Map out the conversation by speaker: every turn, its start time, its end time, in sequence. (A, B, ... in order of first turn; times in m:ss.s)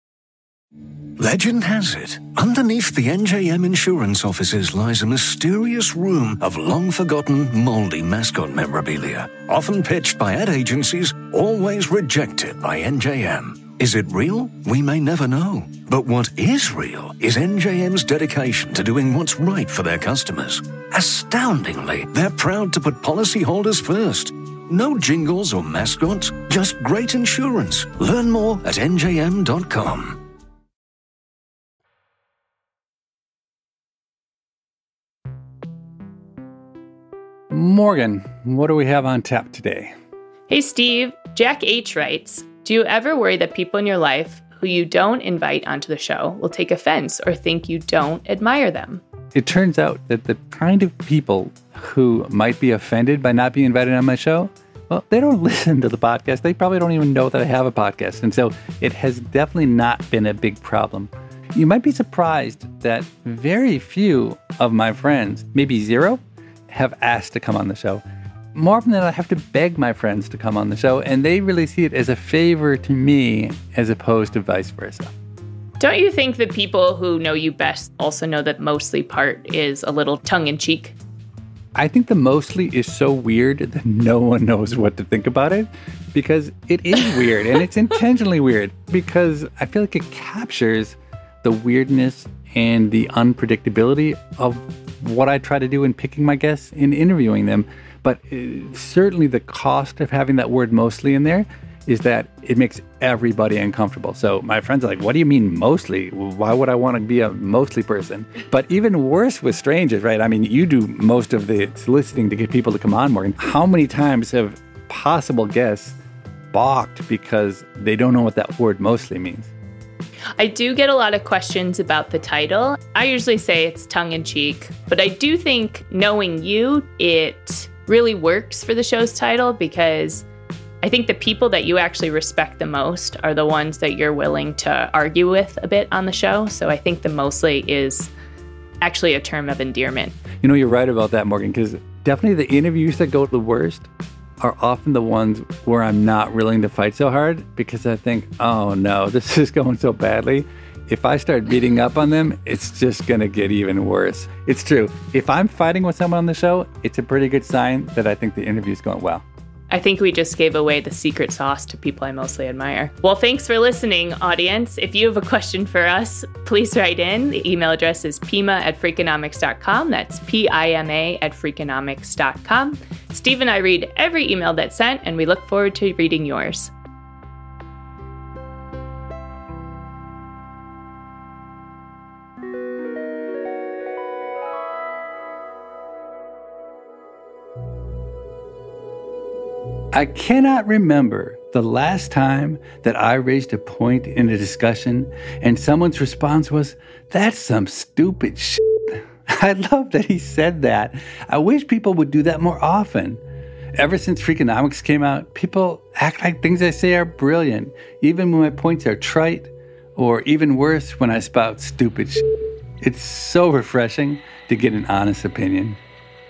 0:01.2-0:30.2 A
0:37.5-0:39.9 B
0:40.5-0:49.0 C
0:49.3-1:08.0 B
1:08.5-1:15.1 B
1:15.8-1:21.0 C
1:21.7-1:56.0 B
1:56.5-1:59.5 B
2:00.4-2:10.2 C
2:10.8-2:18.1 C
2:18.8-2:20.2 C
2:20.4-2:23.9 B
2:24.4-2:39.2 B
2:39.7-2:56.7 C
3:09.9-3:23.2 B
3:23.8-3:32.2 B
3:32.8-3:35.8 B